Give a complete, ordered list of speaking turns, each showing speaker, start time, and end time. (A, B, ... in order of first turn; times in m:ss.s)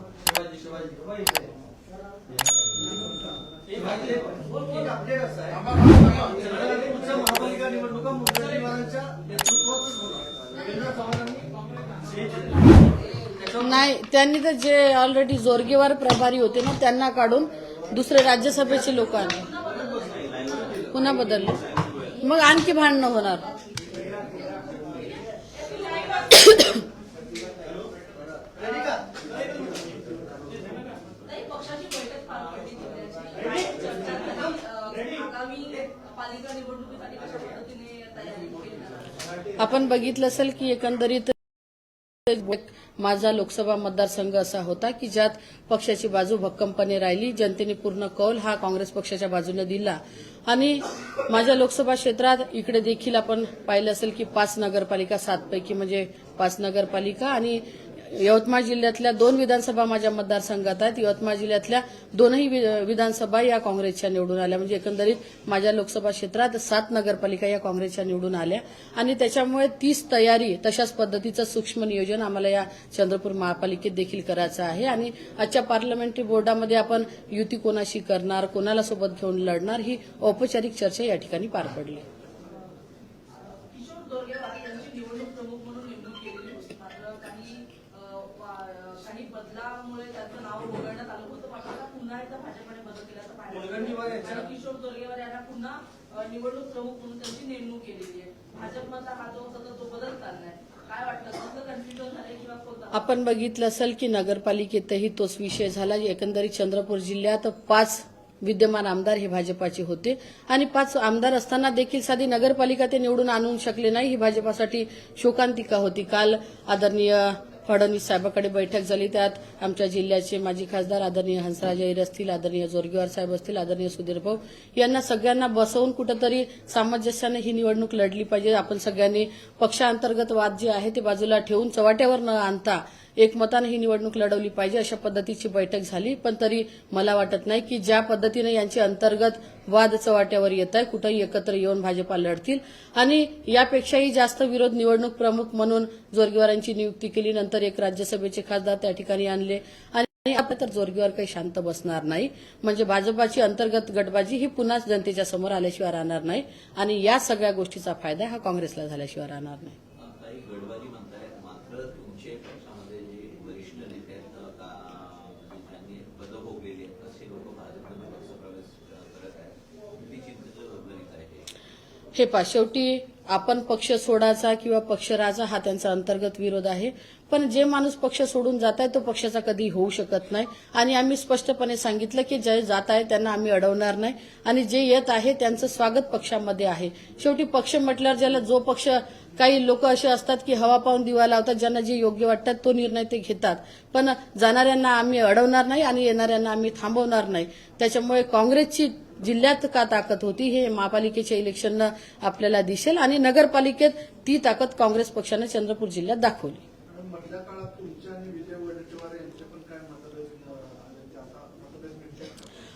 0:03.8-0:05.6 A
0:05.6-0:10.1 B
0:06.2-0:07.2 A
0:13.6-0:19.5 C
0:18.8-0:20.7 A
0:20.1-0:22.2 D
0:20.9-0:21.6 C
0:22.2-0:23.5 C
0:25.5-0:26.8 A
0:28.6-0:29.2 A
0:31.2-0:39.1 A
0:39.6-0:41.3 C
0:42.3-1:22.0 C
1:23.6-1:43.0 A
1:33.8-1:34.4 B
1:42.9-2:39.8 C
2:40.0-2:51.5 D
2:52.2-3:26.6 C
3:26.9-3:32.5 B